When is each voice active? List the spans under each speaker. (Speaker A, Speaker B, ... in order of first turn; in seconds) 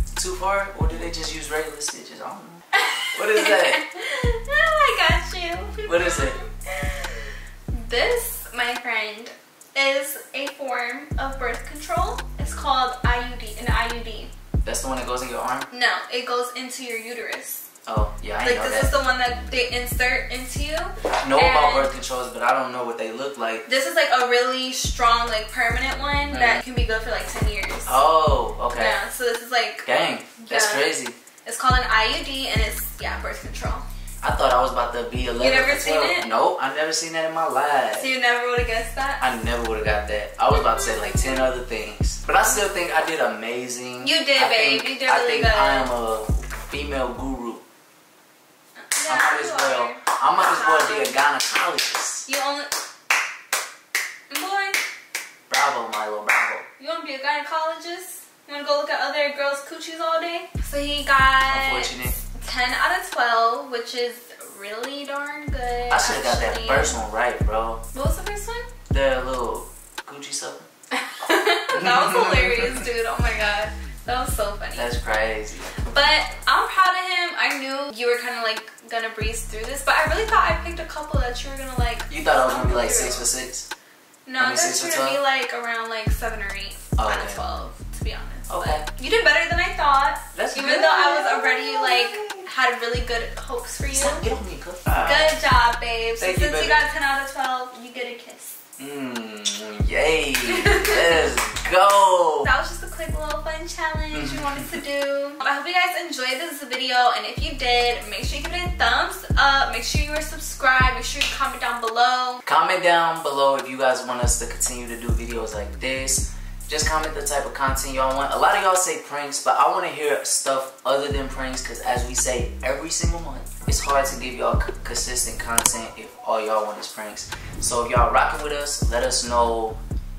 Speaker A: 0.1-2.6, 3.1-3.8, 5.8-6.4, 14.6-15.7, 17.9-18.9, 21.2-23.6, 26.3-26.6, 27.9-29.0, 29.9-31.1, 34.2-38.1, 39.2-47.6, 49.0-52.3, 55.5-56.7, 61.5-62.1, 65.9-67.8, 68.9-70.7, 71.7-72.8, 74.8-75.8, 82.1-83.7, 84.4-85.2, 87.0-87.4, 88.5-88.8, 90.3-92.5, 93.9-95.4, 96.2-96.8, 98.8-102.5, 104.1-104.6, 112.5-129.8
Speaker B: 2.7-14.3, 15.7-17.6, 18.4-21.9, 23.7-28.0, 28.7-29.9, 30.4-30.9, 31.4-33.8, 35.4-36.3, 37.9-39.2, 40.5-41.5, 44.0-45.9, 48.8-51.1, 52.3-52.7, 54.3-54.8, 56.8-67.0, 67.9-68.7, 70.9-74.9, 75.9-83.3, 84.2-94.2, 95.0-98.5, 100.5-101.0, 102.4-112.4